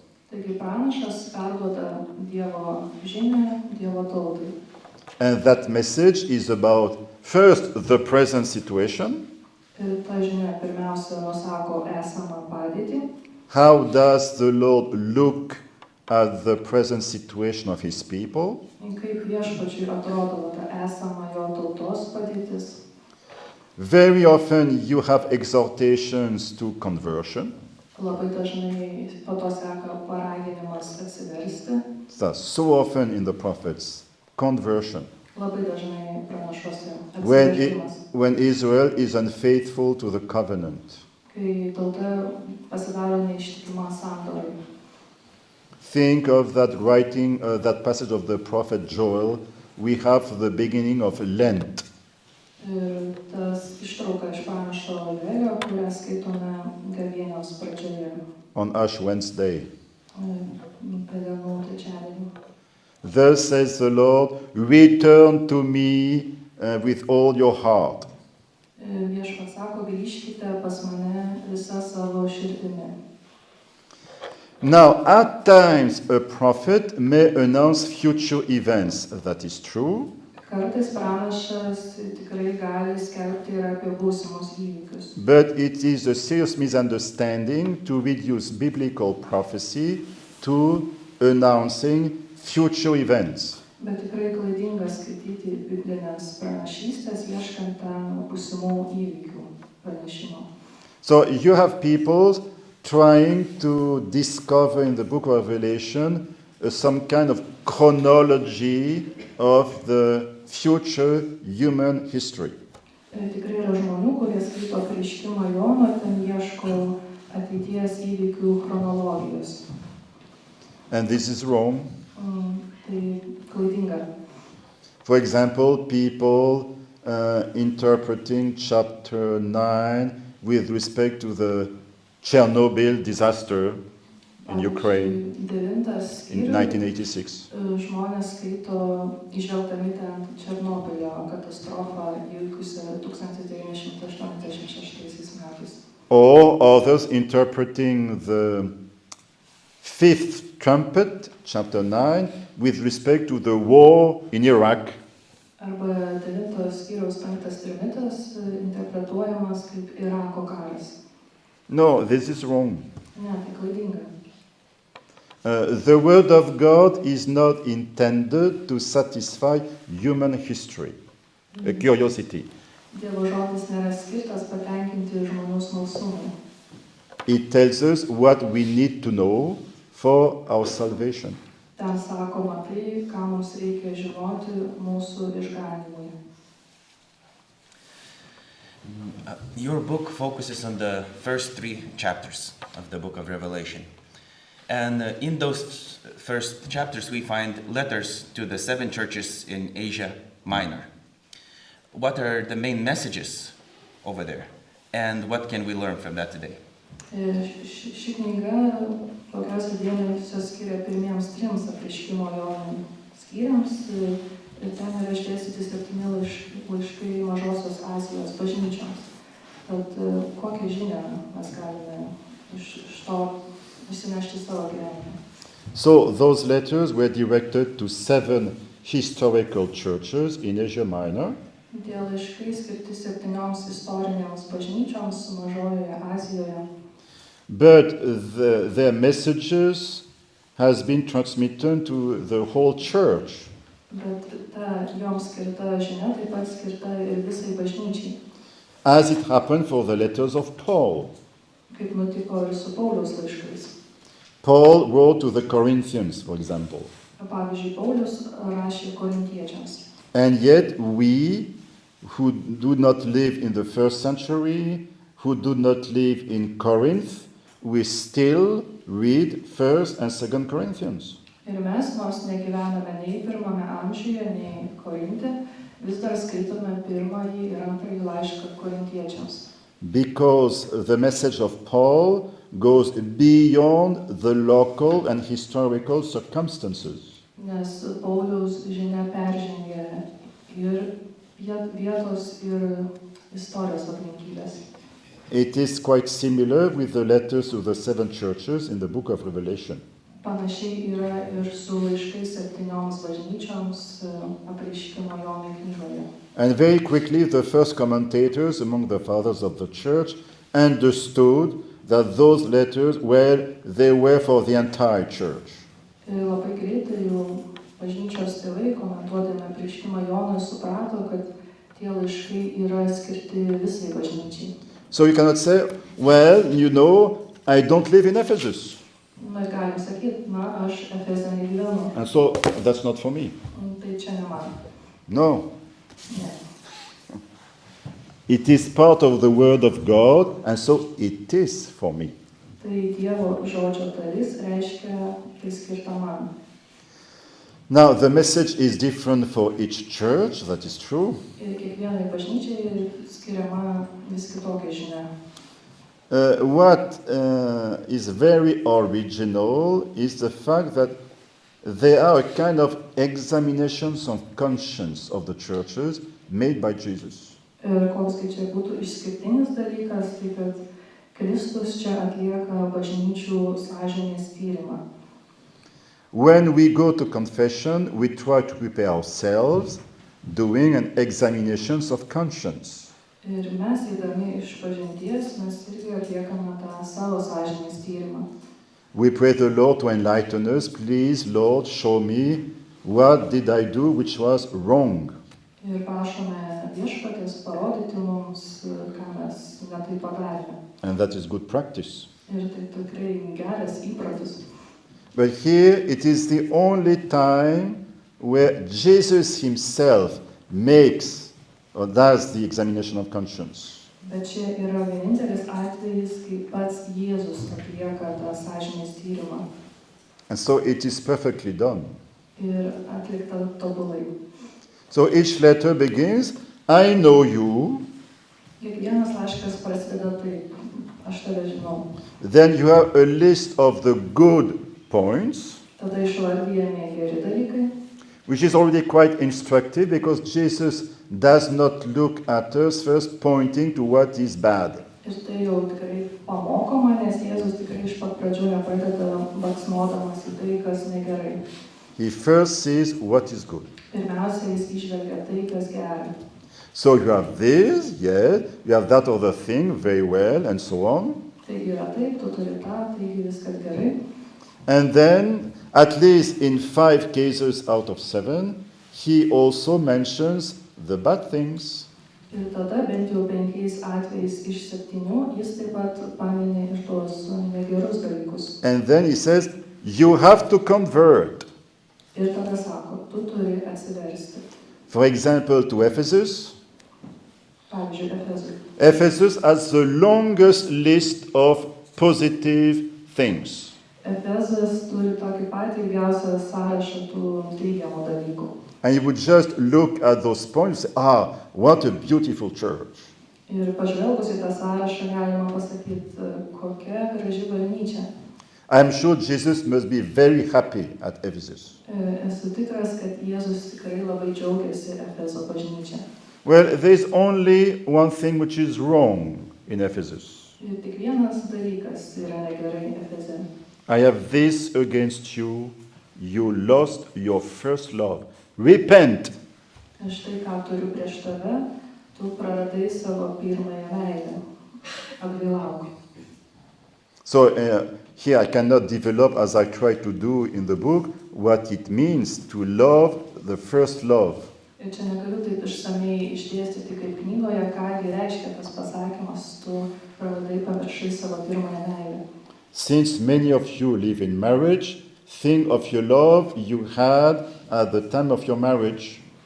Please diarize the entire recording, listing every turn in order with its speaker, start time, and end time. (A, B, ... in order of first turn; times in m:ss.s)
0:00.3-0:04.6 A
0:05.2-0:09.2 B
0:09.8-0:13.1 A
0:13.5-0:18.6 B
0:18.8-0:22.8 A
0:23.8-0:27.5 B
0:28.0-0:31.8 A
0:32.1-0:35.1 B
0:35.3-0:38.0 A
0:37.2-0:41.0 B
0:41.3-0:44.6 A
0:45.8-0:51.8 B
0:52.6-0:58.2 A
0:58.6-0:59.7 B
1:00.1-1:02.3 A
1:03.0-1:08.1 B
1:08.8-1:13.0 A
1:14.6-1:20.1 B
1:20.4-1:25.1 A
1:25.2-1:33.6 B
1:33.8-1:40.5 A
1:41.0-1:52.6 B
1:53.1-1:59.6 A
2:00.9-2:01.9 B
2:02.2-2:04.1 A
2:05.0-2:11.7 B
2:12.2-2:13.8 B
2:14.4-2:15.2 B
2:14.4-2:16.8 A
2:16.3-2:17.5 B
2:17.5-2:25.8 A
2:26.1-2:28.7 B
2:29.8-2:35.0 B
2:35.6-2:41.0 A
2:41.7-2:42.9 B
2:43.2-2:44.1 A
2:45.4-2:51.0 B
2:51.6-2:51.8 A
2:51.6-2:52.5 B
2:52.9-2:56.3 A
2:57.3-3:01.4 B
3:01.8-3:06.1 A
3:08.8-3:13.9 C
3:14.7-3:20.9 C
3:21.9-3:26.6 C
3:27.1-3:39.1 A
3:39.7-3:45.2 A
3:45.7-3:51.4 B
3:51.7-3:56.7 A
3:57.5-4:00.0 B
4:00.6-4:03.5 B
4:03.9-4:08.2 A
4:08.8-4:11.1 B
4:11.7-4:13.7 A
4:14.4-4:16.9 B
4:17.2-4:19.8 A
4:20.1-4:21.5 B
4:22.0-4:31.2 B
4:31.4-4:39.4 A
4:39.8-4:47.2 B
4:47.4-4:54.6 A
4:55.3-4:59.8 B
5:00.2-5:06.1 A
5:06.4-5:15.6 B
5:16.1-5:24.5 A
5:24.9-5:28.8 B
5:29.2-5:31.9 A
5:31.9-5:33.4 B
5:33.5-5:34.5 A
5:35.1-5:35.5 B
5:36.1-5:36.4 A
5:38.3-5:42.1 B
5:42.6-5:46.3 A
5:47.7-5:51.2 B
5:51.4-5:55.1 A
5:56.1-6:01.0 B
6:01.6-6:07.4 B
6:07.6-6:10.6 A
6:11.1-6:14.8 A
6:16.1-6:22.9 B
6:23.2-6:28.3 A
6:28.9-6:35.2 B
6:35.6-6:40.6 A
6:40.8-6:42.1 B
6:42.3-6:44.4 A
6:45.1-6:53.9 B
6:54.0-6:59.5 A
7:00.3-7:02.0 B
7:02.4-7:04.1 A
7:04.9-7:07.8 B
7:08.6-7:11.9 A
7:12.2-7:15.6 B
7:15.8-7:17.7 A
7:18.3-7:24.8 B
7:25.0-7:31.4 A
7:32.0-7:33.7 B
7:33.9-7:36.1 A
7:36.7-7:41.2 B
7:41.4-7:44.0 A
7:44.7-7:51.9 B
7:52.3-7:58.6 A
7:58.6-8:01.5 B
8:02.2-8:04.4 A
8:04.9-8:06.6 B
8:07.7-8:08.6 A
8:08.8-8:13.7 B
8:14.0-8:18.5 A
8:18.8-8:23.1 B
8:23.5-8:28.1 A
8:28.7-8:31.8 B
8:31.9-8:36.0 A
8:36.4-8:40.6 B
8:40.6-8:43.5 A
8:43.9-8:49.3 B
8:50.0-8:51.6 A
8:52.2-8:54.4 A
8:55.2-8:55.9 A
8:57.2-9:04.5 B
9:04.8-9:12.2 A
9:12.7-9:19.2 B